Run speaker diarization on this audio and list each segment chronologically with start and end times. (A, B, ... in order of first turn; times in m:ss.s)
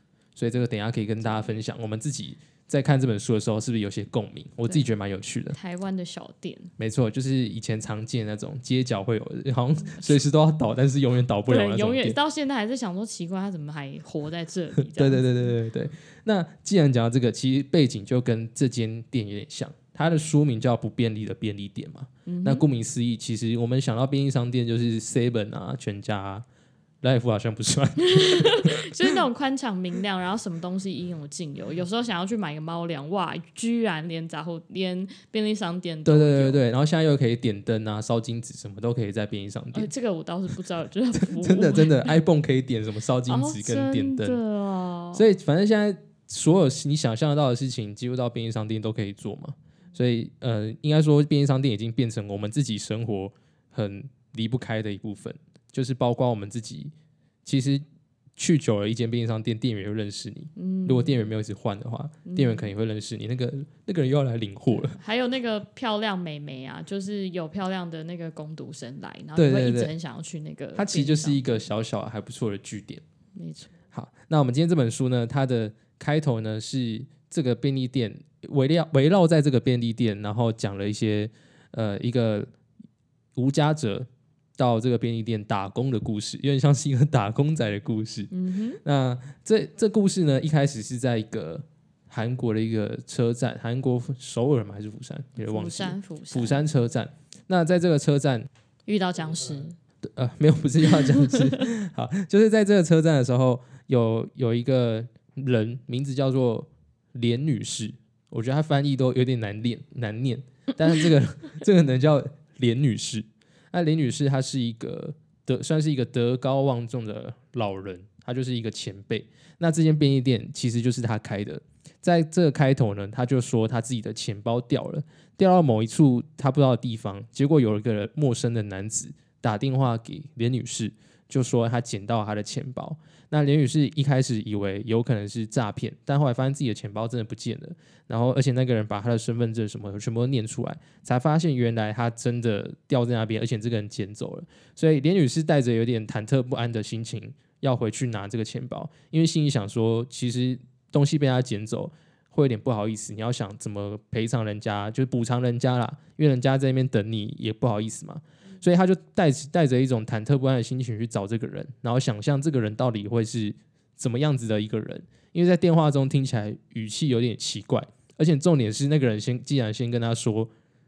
0:00.4-0:05.6 A
0:05.5-0:06.7 B
0:06.8-0:12.2 A
0:09.8-0:10.2 B
0:11.5-0:15.3 B
0:14.8-0:26.4 A
0:22.3-0:22.6 B
0:27.0-0:29.2 A
0:28.0-0:36.6 B
0:36.1-0:39.9 A
0:39.7-0:42.2 B
0:41.2-0:44.4 A
0:43.3-0:45.3 B
0:45.1-0:56.9 A
0:57.4-0:57.8 A
0:58.4-1:05.0 A
1:00.6-1:01.3 B
1:02.3-1:02.7 B
1:04.7-1:11.6 B
1:09.4-1:09.9 A
1:10.8-1:13.0 A
1:13.4-1:13.7 B
1:13.9-1:22.5 A
1:23.4-1:24.1 A
1:24.6-1:28.3 A
1:28.3-1:28.8 B
1:28.8-1:38.5 A
1:35.4-1:36.6 B
1:38.9-1:39.8 B
1:40.0-2:50.5 A